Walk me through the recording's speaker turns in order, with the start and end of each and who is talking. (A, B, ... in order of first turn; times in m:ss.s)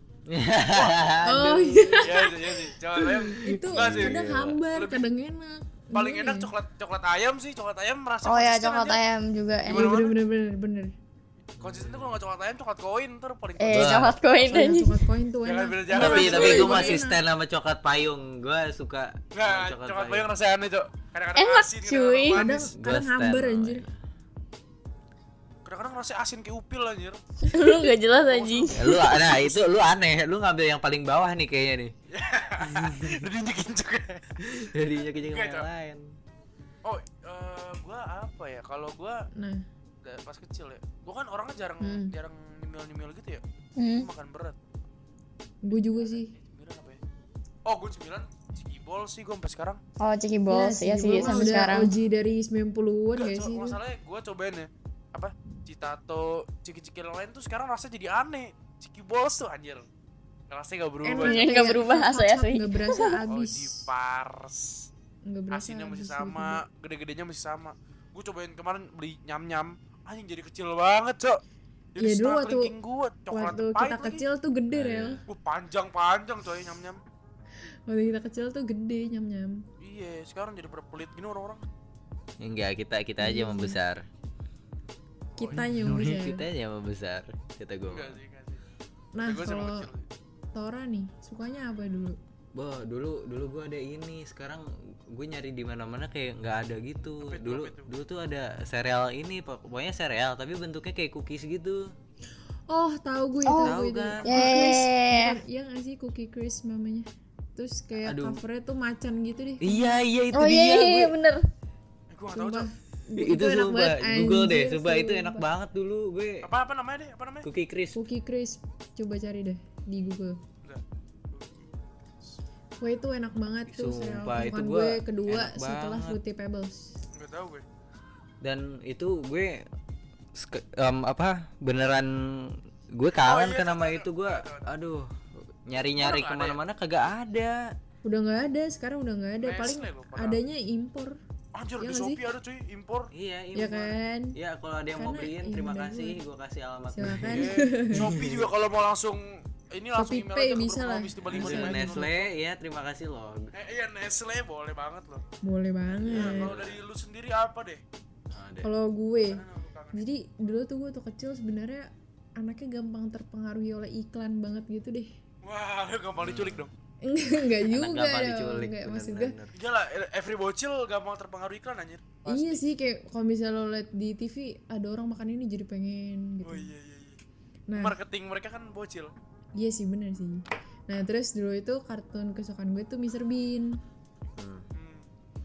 0:00.3-0:02.1 A
0:00.7-0:01.1 B
0:01.2-0:02.4 C
0:02.0-0:04.2 B
0:03.2-0:04.6 A
0:03.4-0:06.5 C
0:04.7-0:05.1 B
0:05.9-0:09.0 B
0:08.2-0:09.9 D
0:09.6-0:10.2 B
0:09.7-0:10.9 C
0:11.6-0:14.1 B
0:11.6-0:12.2 A
0:13.6-0:15.0 D
0:13.7-0:14.2 A
0:14.4-0:17.2 C
0:15.4-0:17.0 B
0:15.9-0:20.3 A
0:16.0-0:16.8 D
0:19.3-0:22.7 B
0:21.4-0:22.4 D
0:22.3-0:23.8 C
0:22.7-0:24.0 A
0:25.6-0:27.2 B
0:27.4-0:29.2 D
0:28.3-0:29.8 B
0:28.7-0:31.9 A
0:32.1-0:35.7 B
0:32.6-0:33.2 A
0:34.4-0:36.1 A
0:36.8-0:39.3 B
0:39.3-0:39.6 C
0:40.0-0:43.4 B
0:41.8-0:42.1 C
0:43.8-0:44.1 D
0:43.9-0:44.6 B
0:45.6-0:46.3 C
0:45.7-0:47.0 B
0:47.6-0:49.8 B
0:50.0-0:51.9 D
0:50.5-0:53.8 C
0:53.2-0:59.9 B
1:00.5-1:01.5 B
1:01.0-1:03.9 C
1:01.2-1:03.2 D
1:03.3-1:04.9 B
1:05.2-1:06.6 C
1:05.5-1:11.4 B
1:11.9-1:14.2 B
1:12.0-1:12.7 C
1:13.3-1:15.2 C
1:14.7-1:15.2 A
1:15.3-1:17.0 B
1:17.9-1:19.6 C
1:19.8-1:21.6 B
1:22.4-1:24.0 A
1:23.2-1:23.8 C
1:25.3-1:26.0 B
1:25.4-1:26.4 C
1:25.5-1:28.2 A
1:27.9-1:28.6 B
1:29.2-1:29.9 C
1:29.2-1:30.1 B
1:30.5-1:32.2 C
1:32.5-1:41.9 A
1:37.2-1:37.9 B
1:42.7-1:50.0 C
1:43.4-1:43.7 D
1:43.6-1:44.6 A
1:44.2-1:45.4 D
1:48.0-1:48.4 A
1:49.6-1:51.1 A
1:50.3-1:51.4 D
1:52.1-1:52.7 B
1:52.3-1:55.4 C
1:53.2-1:56.5 A
1:56.4-1:57.5 B
1:57.4-1:58.0 A
1:57.9-2:00.4 C
2:00.6-2:01.7 B
2:02.8-2:06.8 C
2:03.7-2:06.2 A
2:07.1-2:07.6 B
2:08.4-2:09.6 A
2:10.3-2:17.7 A
2:13.2-2:14.7 B
2:16.0-2:16.6 B
2:18.0-2:21.2 C
2:19.4-2:20.4 B
2:21.5-2:23.1 B
2:21.8-2:22.2 C
2:23.1-2:28.5 A
2:23.5-2:24.4 C
2:25.0-2:26.2 C
2:26.9-2:28.1 C
2:27.2-2:32.3 B
2:29.9-2:32.1 C
2:31.2-2:33.5 A
2:33.5-2:35.2 B
2:35.4-2:36.5 C
2:35.9-2:36.8 A
2:36.1-2:37.8 B
2:38.3-2:38.7 A
2:38.6-2:45.1 C
2:39.3-2:40.0 B
2:45.4-2:46.7 B
2:46.2-2:46.7 A
2:47.0-2:49.3 C
2:47.6-2:49.5 A
2:49.5-2:52.6 B
2:52.2-2:56.7 C
2:56.4-2:57.2 B
2:57.7-2:58.0 C
2:57.8-2:59.1 B
2:59.6-3:03.8 C
3:04.4-3:04.7 A
3:04.7-3:05.0 B